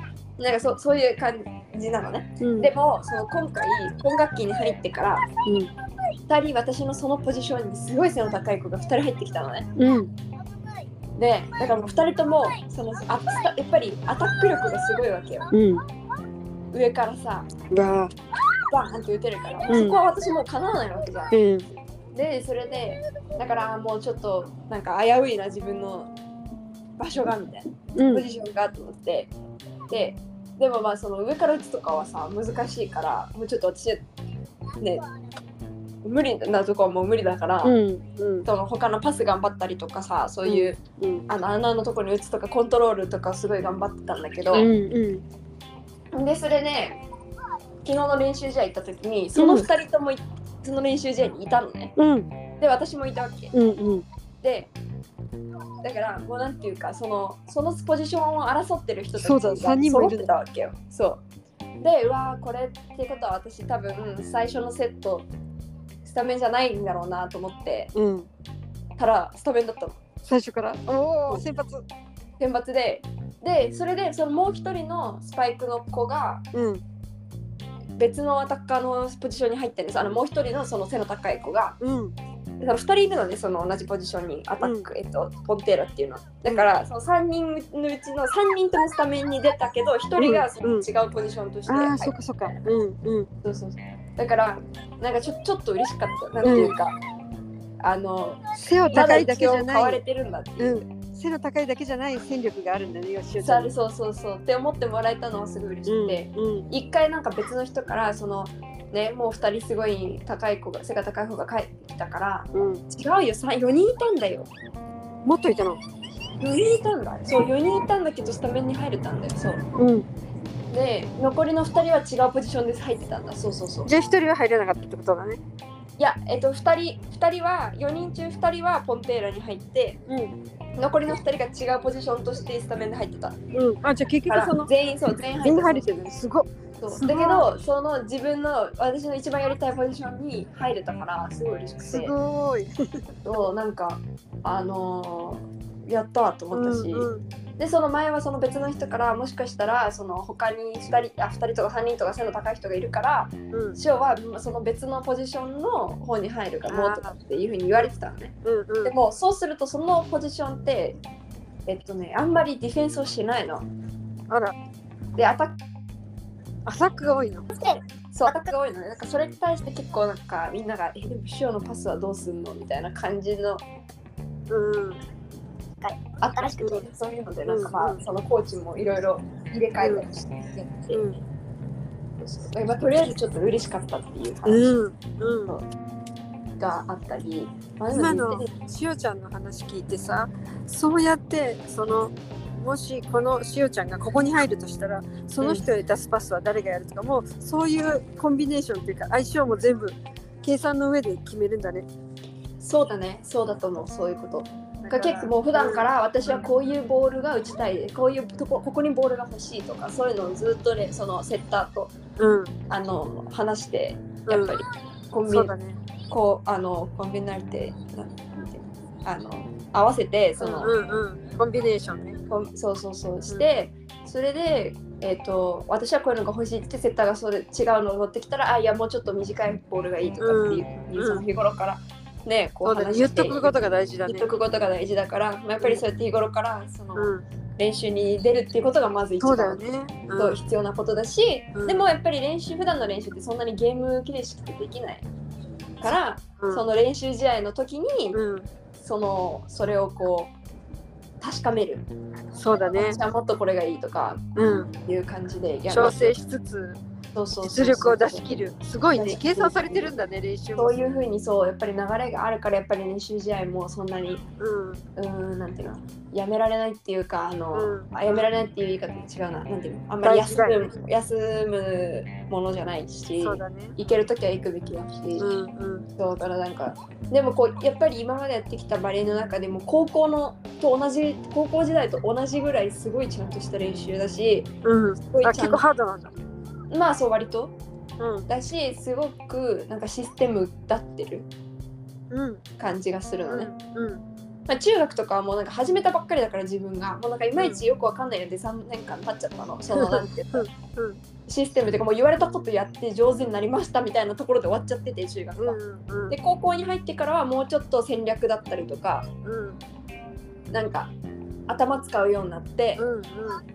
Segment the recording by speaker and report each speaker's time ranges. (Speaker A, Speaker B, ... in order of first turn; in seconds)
Speaker A: 0.4-5.3, 6.3-9.7, 11.2-15.5, 16.7-17.5, 18.7-21.4, 22.1-26.1, 27.0-29.3, 29.9-34.0, 36.0-37.8, 38.5-44.7, 46.1-47.0, 47.9-51.9, 52.6-53.5, 54.4-54.7, 55.8-61.2, 61.8-65.3, 66.0-67.9, 69.0-70.0, 72.4-76.5, 78.0-81.8, 82.6-92.6, 93.4-97.0, 97.8-100.8, 103.4-114.5, 116.4-119.6, 120.7-123.9, 126.0-130.0, 130.8-133.4, 134.3-135.9, 136.8-142.1, 143.2-161.0, 161.7-163.7, 165.2-165.6, 167.5-173.6, 176.2-181.0, 182.2-184.8, 186.6-188.5, 195.4-195.7, 202.6-211.9, 212.7-215.5, 216.1-220.8, 222.3-239.6, 240.2-245.1, 245.8-248.2, 248.8-250.3, 251.2-251.9, 252.5-256.2, 257.1-258.4, 258.9-259.9, 260.6-264.2, 265.0-275.3, 276.0-284.5, 285.1-285.6, 286.7-287.6, 288.3-291.3, 292.6-293.5, 294.5-300.5, 301.3-305.6, 306.1-309.1, 310.5-310.9, 311.5-312.8
Speaker B: 2.4-2.7, 5.5-5.7, 9.8-10.1, 15.5-15.8, 17.7-18.1, 19.7-20.0, 21.3-21.7, 28.0-28.3, 37.6-38.5, 40.5-41.3, 44.5-45.2, 49.4-49.7, 52.0-52.3, 53.5-54.0, 59.2-60.3, 67.9-68.3, 70.2-71.9, 76.5-76.8, 81.8-82.2, 84.6-84.9, 90.2-90.9, 91.7-93.3, 96.4-96.8, 98.5-100.0, 100.6-103.7, 105.8-106.7, 112.5-112.8, 115.2-115.8, 119.8-120.1, 123.8-125.4, 130.1-130.4, 133.5-134.7, 135.4-137.5, 141.8-143.1, 146.5-147.2, 153.5-153.8, 156.7-157.2, 158.4-158.9, 164.3-164.6, 166.7-167.5, 174.5-175.0, 176.4-176.9, 177.5-178.0, 179.8-180.1, 180.9-181.2, 184.4-185.5, 187.9-201.9, 204.8-206.5, 212.2-212.5, 214.3-214.6, 215.3-215.8, 220.4-222.2, 230.2-231.2, 232.6-234.3, 236.9-237.2, 239.2-240.4, 241.5-241.9, 246.4-246.7, 248.1-248.5, 252.3-253.0, 254.4-254.7, 255.7-256.8, 257.4-260.8, 264.4-264.8, 267.5-268.3, 270.0-270.7, 273.2-273.8, 275.2-275.9, 284.6-286.1, 288.0-288.3, 292.1-292.4, 293.3-294.0, 297.4-297.6, 299.7-301.0, 305.4-306.2, 309.2-309.6, 312.8-313.4